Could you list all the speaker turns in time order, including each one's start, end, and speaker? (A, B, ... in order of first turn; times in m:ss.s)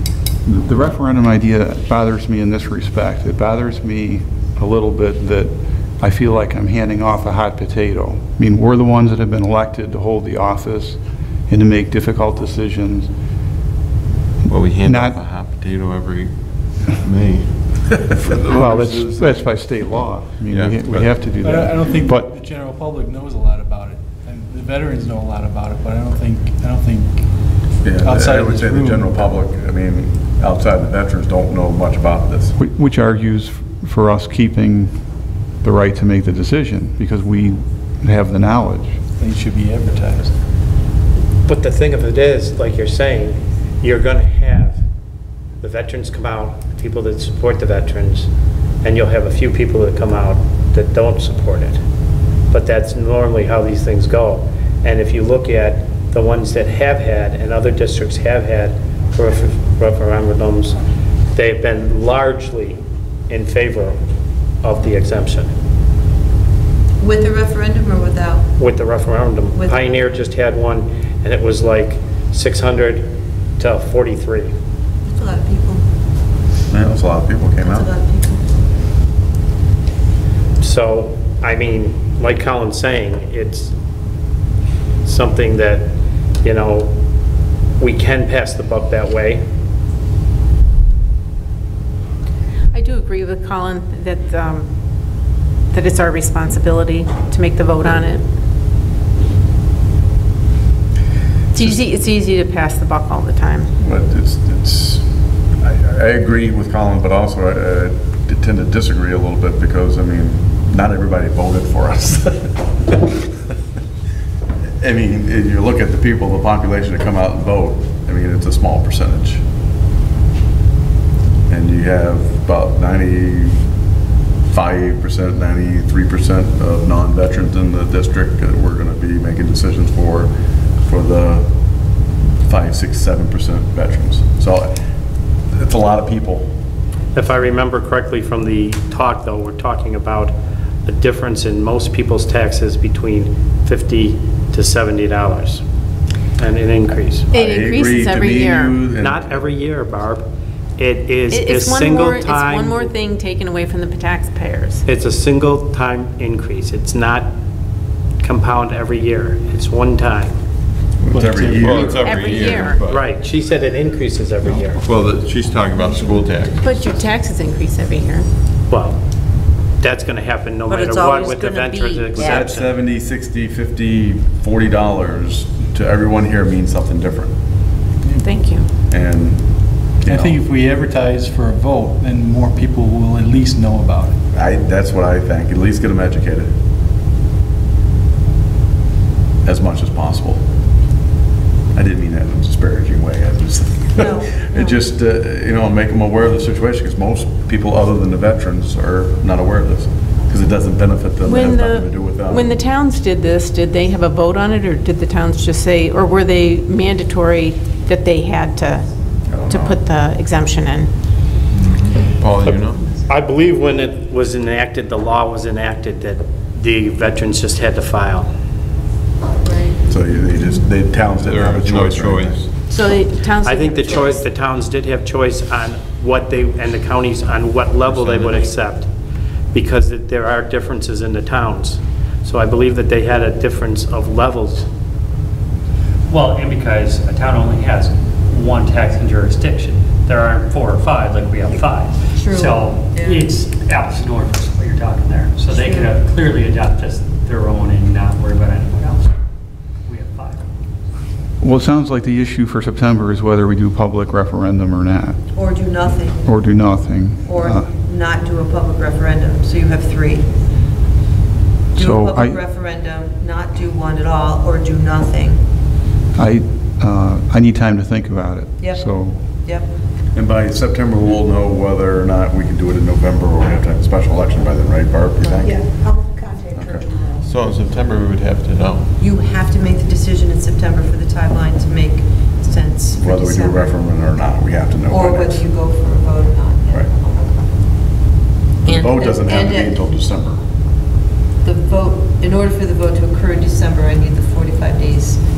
0:00.4-0:13.1 A
0:14.5-0:16.3 B
0:14.8-0:15.2 A
0:16.9-0:19.5 B
0:18.5-0:22.3 A
0:20.5-0:21.1 B
0:21.4-0:27.2 C
0:27.8-0:32.6 D
0:28.0-0:29.2 C
0:32.6-0:35.0 A
0:35.6-0:39.0 A
0:39.2-0:40.4 C
0:41.5-0:44.8 E
0:45.6-0:48.3 E
0:48.8-0:51.8 E
0:52.5-1:00.8 E
1:01.3-1:04.0 E
1:04.6-1:05.5 E
1:07.0-1:08.5 F
1:08.6-1:14.5 E
1:09.5-1:10.0 F
1:15.0-1:15.8 F
1:16.7-1:17.9 D
1:17.6-1:18.4 F
1:20.6-1:23.7 E
1:25.0-1:26.9 E
1:27.8-1:29.4 E
1:32.7-1:34.6 G
1:35.7-1:38.2 G
1:41.5-1:43.7 G
1:43.8-1:45.0 D
1:45.6-1:53.2 D
1:54.8-1:59.4 D
2:01.5-2:03.6 D
2:04.5-2:10.3 D
2:10.8-2:11.4 D
2:12.4-2:14.7 D
2:15.5-2:16.5 D
2:17.1-2:25.6 E
2:26.4-2:27.3 E
2:27.3-2:28.8 G
2:27.4-2:29.4 D
2:29.0-2:30.2 E
2:30.8-2:32.9 E
2:31.3-2:34.8 G
2:34.8-2:37.3 E
2:38.2-2:40.4 E
2:41.0-2:42.0 D
2:41.1-2:41.7 C
2:41.6-2:43.0 B
2:41.9-2:42.8 G
2:42.9-2:44.8 E
2:44.7-2:46.8 B
2:46.6-2:48.3 G
2:48.7-2:49.0 E
2:49.8-2:52.7 E
2:50.7-2:52.4 F
2:52.2-2:57.3 D
2:58.2-2:58.7 G
2:58.9-2:59.4 D
3:00.0-3:00.4 D
3:00.1-3:04.1 C
3:04.3-3:06.5 D
3:09.4-3:10.4 D
3:11.7-3:22.5 D
3:13.9-3:14.6 F
3:21.2-3:28.9 G
3:29.3-3:29.8 D
3:29.5-3:30.9 G
3:31.6-3:32.8 B
3:33.1-3:38.3 E
3:39.4-3:39.8 F
3:39.8-3:42.4 D
3:41.2-3:42.5 B
3:42.6-3:44.2 G
3:43.4-3:48.9 E
3:47.9-3:48.4 B
3:49.5-3:54.7 E
3:56.1-4:09.1 H
4:02.1-4:03.3 F
4:05.5-4:05.9 F
4:09.8-4:10.4 H
4:11.4-4:15.2 A
4:15.3-4:16.3 F
4:16.2-4:17.6 A
4:17.2-4:20.3 F
4:21.7-4:22.4 A
4:21.7-4:25.4 F
4:26.1-4:29.2 A
4:30.1-4:35.6 D
4:36.5-4:36.8 D
4:37.2-4:38.9 B
4:39.0-4:43.8 F
4:42.9-4:45.4 D
4:44.9-4:46.9 F
4:48.6-4:49.8 F
4:48.6-4:50.4 D
4:51.4-4:55.2 F